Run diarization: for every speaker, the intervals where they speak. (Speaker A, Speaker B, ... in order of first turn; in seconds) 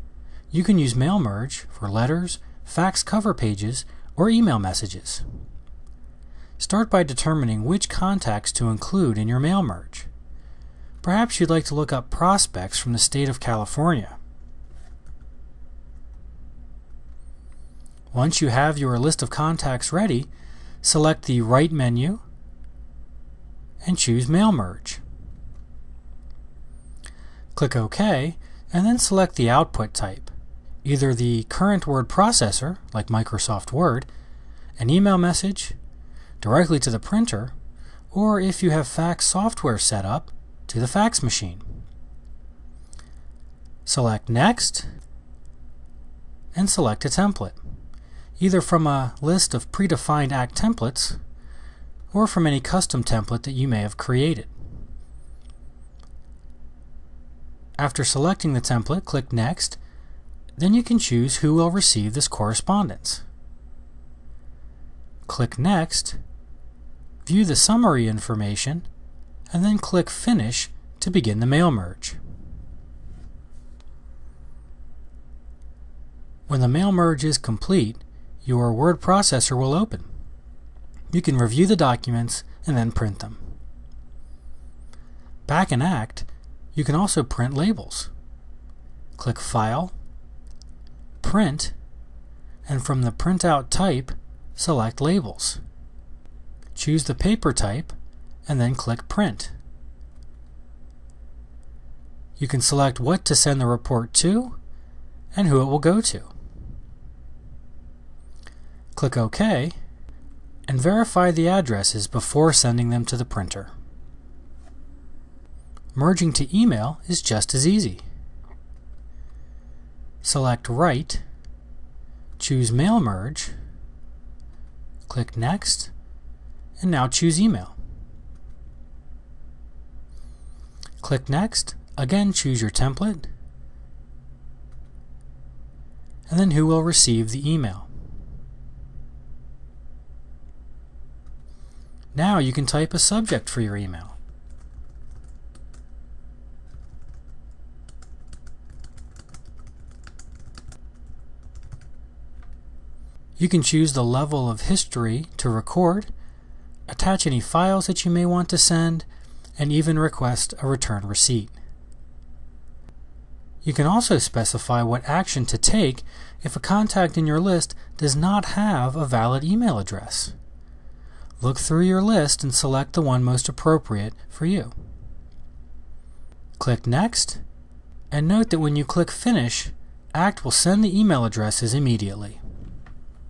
Speaker A: 0.5-5.2, 6.6-10.1, 11.0-14.2, 18.1-20.3, 20.8-22.2, 23.8-25.0, 27.5-34.1, 34.8-35.8, 36.4-37.5, 38.1-41.6, 43.9-44.9, 46.5-47.6, 48.4-51.2, 52.1-54.5, 57.8-59.8, 60.6-63.2, 65.2-66.2, 67.2-68.8, 69.5-72.2, 76.5-80.1, 81.1-83.4, 85.5-88.1, 89.2-89.9, 91.2-91.7, 92.7-95.6, 96.7-97.9, 98.5-99.5, 102.4-104.6, 105.3-106.3, 108.9-109.8, 110.7-113.7, 115.9-118.0, 120.2-121.2, 122.4-123.5, 125.1-125.9, 126.8-127.7, 131.0-133.3, 136.3-137.9, 142.1-144.2, 153.4-156.1, 156.9-159.1, 159.6-161.6, 163.6-170.3, 171.4-174.7, 176.6-177.4, 178.1-182.4